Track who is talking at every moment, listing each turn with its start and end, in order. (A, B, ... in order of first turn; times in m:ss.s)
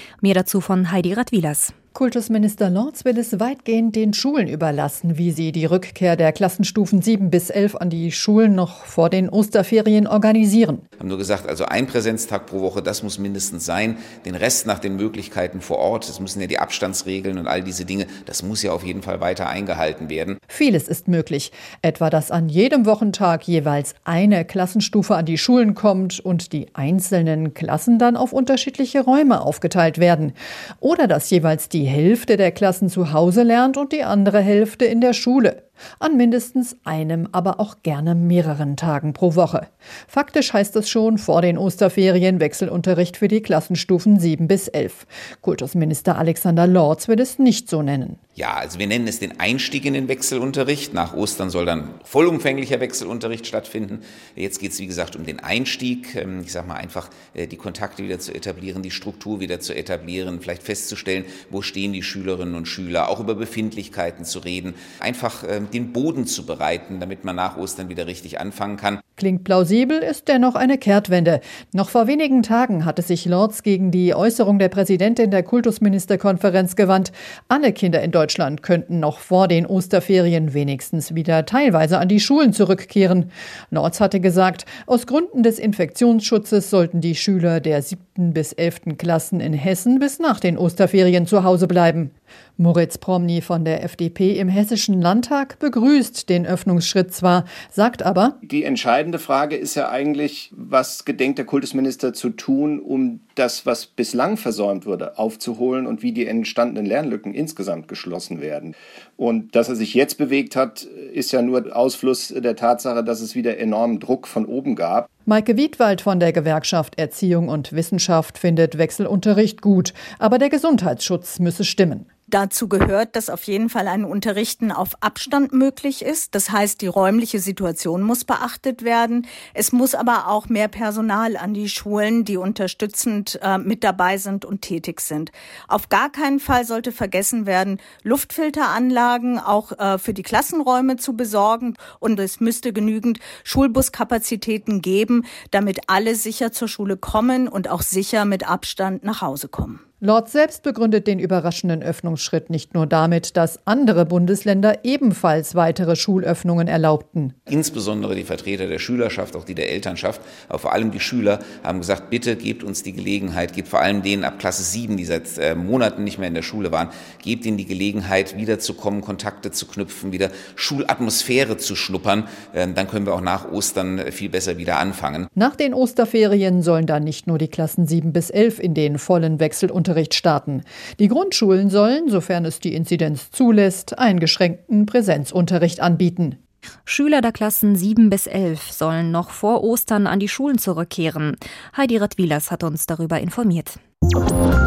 0:00.2-0:01.7 A
0:01.9-0:10.8 B
0:11.0-0:20.4 C
0:20.5-0:48.2 B
0:48.4-1:09.0 C
1:09.2-1:38.4 B
1:38.4-1:55.0 D
1:55.2-2:02.0 B
2:02.3-2:29.8 E
2:30.0-2:37.3 B
2:37.5-2:55.3 C
2:55.3-3:06.4 B
3:06.8-3:13.8 A